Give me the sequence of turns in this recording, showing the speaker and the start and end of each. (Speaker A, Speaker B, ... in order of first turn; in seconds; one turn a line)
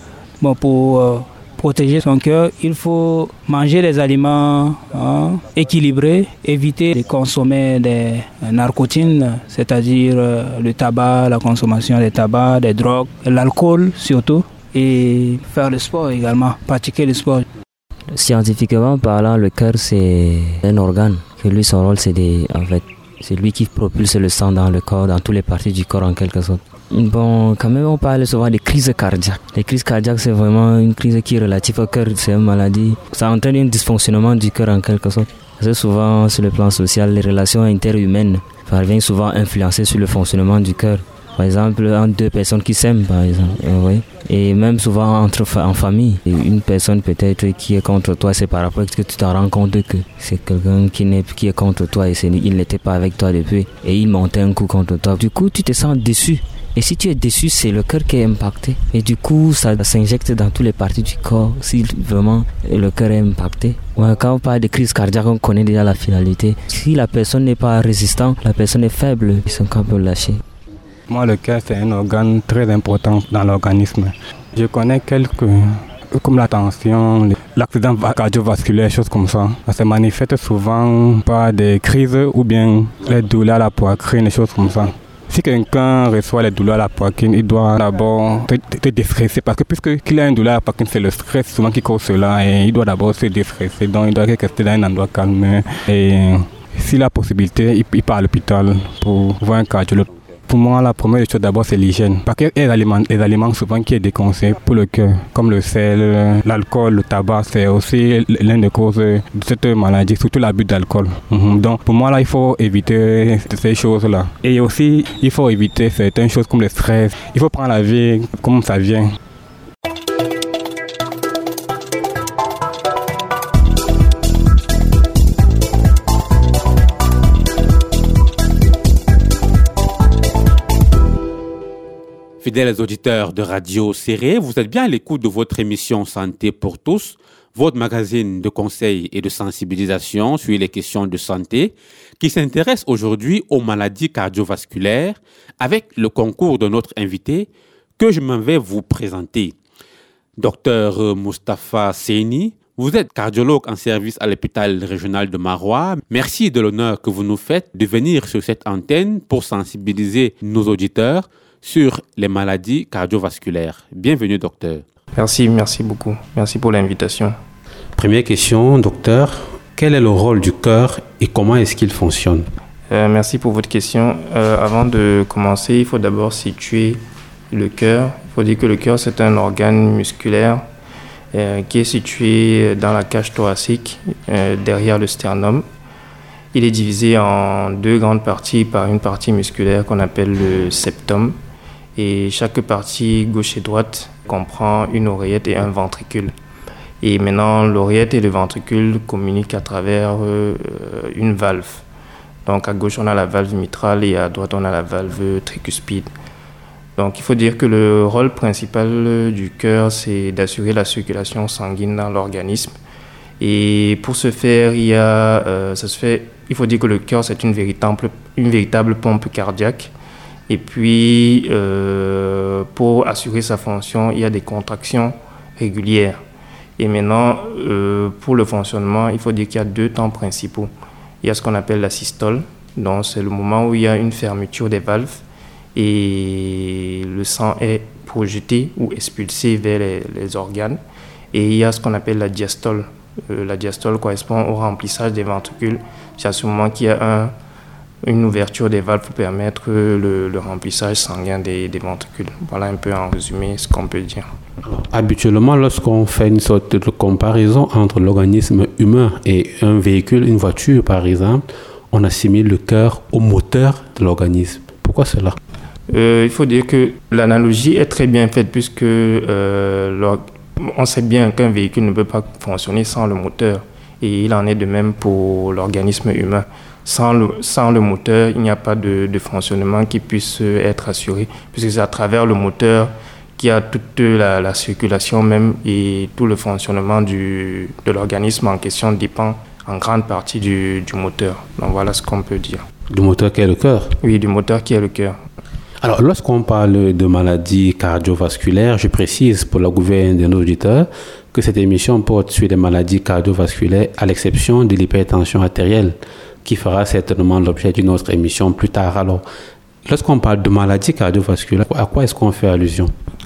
Speaker A: 0.4-17.4
Speaker B: 18.1-70.4
Speaker C: 71.1-119.2
Speaker D: 132.4-149.6
Speaker D: 150.4-164.8
Speaker E: 165.2-167.4
Speaker F: 168.0-172.5
Speaker E: 172.9-177.0
Speaker E: 177.5-180.6
Speaker E: 181.3-185.7
Speaker E: 186.5-191.4
Speaker E: 192.0-196.3
Speaker E: 197.0-201.8
Speaker E: 202.5-206.1
Speaker E: 207.0-212.7
Speaker E: 213.4-219.9
Speaker E: 220.5-226.2
Speaker E: 226.8-230.7
Speaker E: 231.2-235.2
Speaker E: 235.8-240.8
Speaker E: 241.3-247.3
Speaker E: 248.0-254.3
Speaker F: 254.7-265.4
Speaker E: 265.9-292.6
Speaker F: 292.9-293.9
Speaker E: 294.0-295.2
Speaker F: 295.8-309.2
Speaker F: 309.9-312.9